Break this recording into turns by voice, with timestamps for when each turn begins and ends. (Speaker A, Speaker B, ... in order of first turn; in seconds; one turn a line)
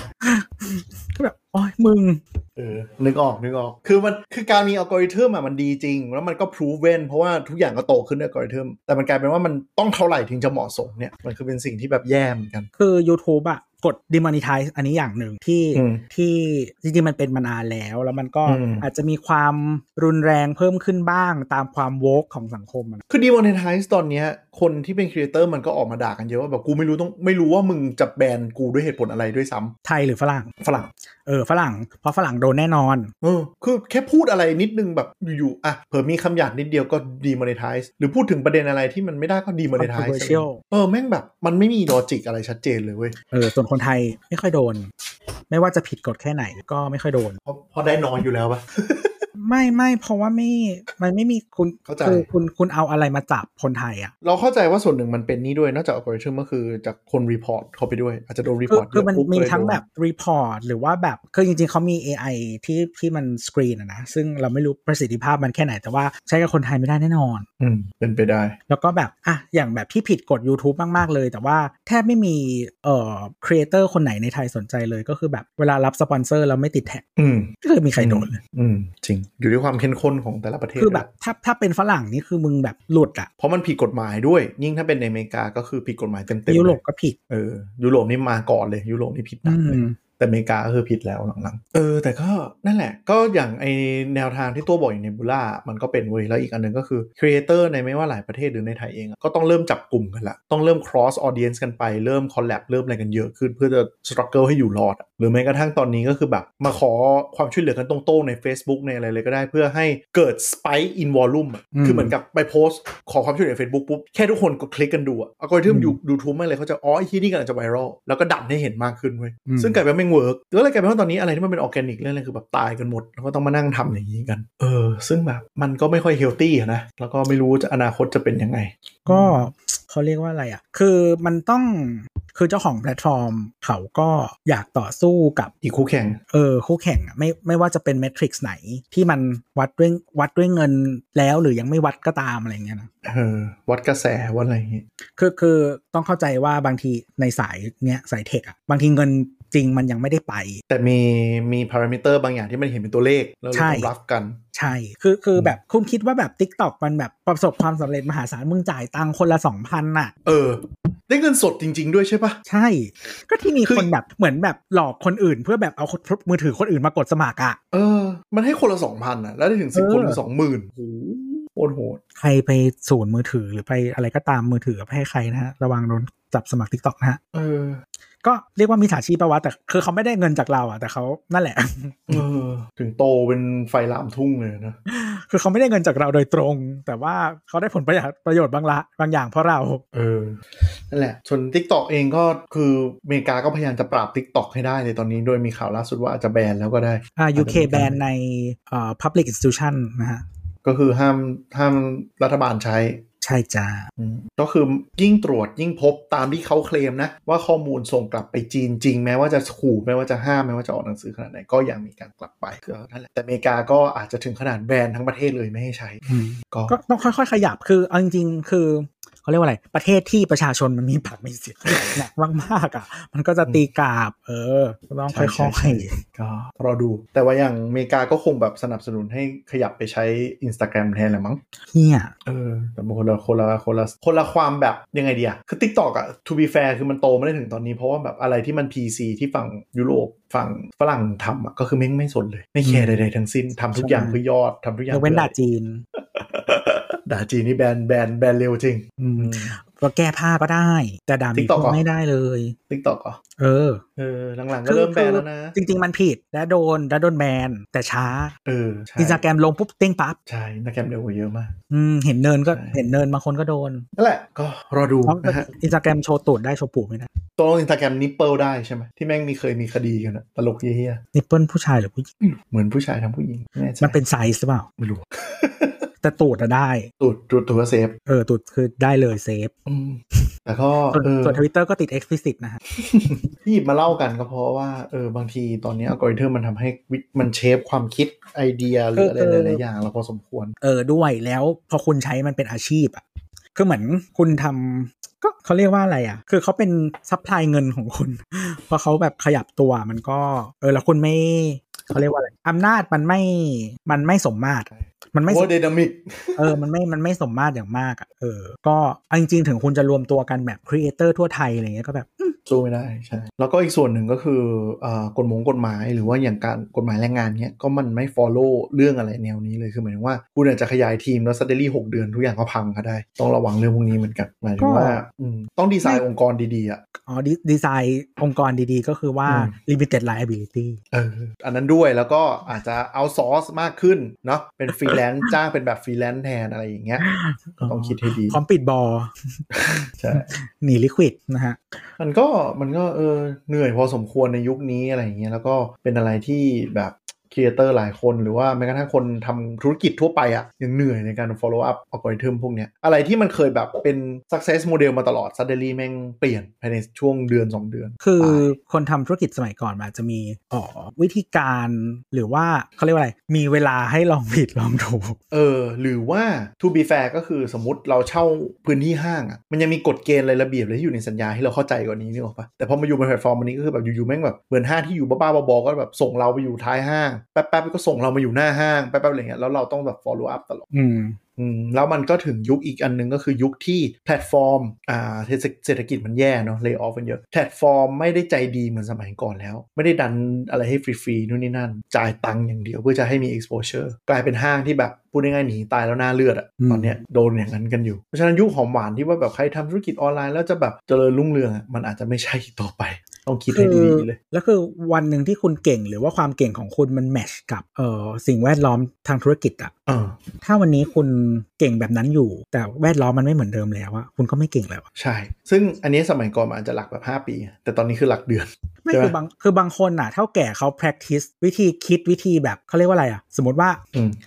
Speaker A: 0.2-2.2
Speaker B: 2.6-12.7
Speaker A: 12.8-23.0
Speaker B: 15.7-16.0
Speaker B: 18.4-18.9
Speaker B: 23.1-29.7
Speaker A: 29.8-30.5
Speaker B: 30.6-30.9
Speaker A: 31.2-33.1
Speaker B: 33.2-43.1
Speaker A: 39.8-40.6
Speaker A: 43.3-44.9
Speaker A: 45.5-47.4
Speaker B: 47.5-49.2
Speaker A: 49.4-54.1
Speaker B: 51.9-52.3
Speaker B: 54.2-59.8
Speaker A: 58.7-67.5
Speaker B: 67.6-68.5
Speaker A: 68.7-77.0
Speaker B: 77.2-81.1
Speaker A: 77.6-78.4
Speaker A: 80.8-83.3
Speaker B: 83.4-86.8
Speaker A: 86.5-87.2
Speaker B: 87.3-129.5
Speaker A: 89.4-90.0
Speaker A: 111.7-112.1
Speaker A: 115.7-116.0
Speaker A: 119.5-119.8
Speaker A: 129.1-135.5
Speaker B: 135.6-136.2
Speaker A: 136.3-142.9
Speaker B: 143.0-144.8
Speaker A: 145.2-150.6
Speaker B: 150.7-154.4
Speaker A: 153.5-153.9
Speaker A: 154.5-160.1
Speaker B: 160.2-162.4
Speaker A: 162.5-167.6
Speaker B: 167.7-172.0
Speaker A: 169.7-170.2
Speaker A: 172.2-177.2
Speaker B: 177.3-177.8
Speaker A: 178.2-182.2
Speaker B: 182.1-184.8
Speaker A: 184.9-189.8
Speaker B: 189.9-198.0
Speaker A: 197.2-200.2
Speaker B: 200.6-203.0
Speaker A: 203.2-203.9
Speaker B: 204.0-216.7
Speaker A: 216.1-226.0
Speaker B: 221.7-222.0
Speaker B: 225.1-231.4
Speaker A: 231.7-232.1
Speaker B: 232.2-245.3
Speaker A: 242.6-242.9
Speaker A: 243.7-244.2
Speaker A: 244.9-245.8
Speaker B: 246.0-249.5
Speaker A: 249.0-252.6
Speaker B: 251.3-251.8
Speaker B: 252.7-253.2
Speaker A: 253.4-253.8
Speaker B: 254.0-255.5
Speaker A: 254.7-258.3
Speaker B: 258.4-259.2
Speaker A: 259.0-260.2
Speaker B: 260.3-261.5
Speaker A: 261.7-263.9
Speaker B: 262.5-262.8
Speaker B: 264.0-265.5
Speaker A: 265.0-267.1
Speaker B: 267.4-271.0
Speaker A: 271.1-272.1
Speaker B: 272.2-274.0
Speaker A: 273.8-274.7
Speaker B: 274.8-275.9
Speaker A: 276.0-276.9
Speaker B: 277.0-277.9
Speaker A: 278.1-279.5
Speaker B: 279.6-281.4
Speaker A: 280.9-282.6
Speaker B: 282.8-290.5
Speaker A: 288.9-289.6
Speaker A: 290.6-293.0
Speaker A: 293.5-305.5
Speaker B: 304.7-306.5
Speaker A: 306.4-312.4
Speaker B: 312.5-326.8
Speaker A: 324.6-325.0
Speaker A: 327.0-330.8
Speaker B: 329.2-329.5
Speaker B: 330.9-337.1
Speaker A: 337.0-341.8
Speaker B: 337.6-338.4
Speaker B: 339.7-340.3
Speaker B: 342.0-358.5
Speaker A: 358.0-365.2
Speaker B: 365.3-380.6
Speaker A: 380.7-381.2
Speaker B: 381.4-404.2
Speaker A: 396.6-397.0
Speaker A: 403.5-409.7
Speaker B: 409.9-410.2
Speaker A: 410.4-414.8
Speaker B: 414.9-419.1
Speaker A: 418.8-423.8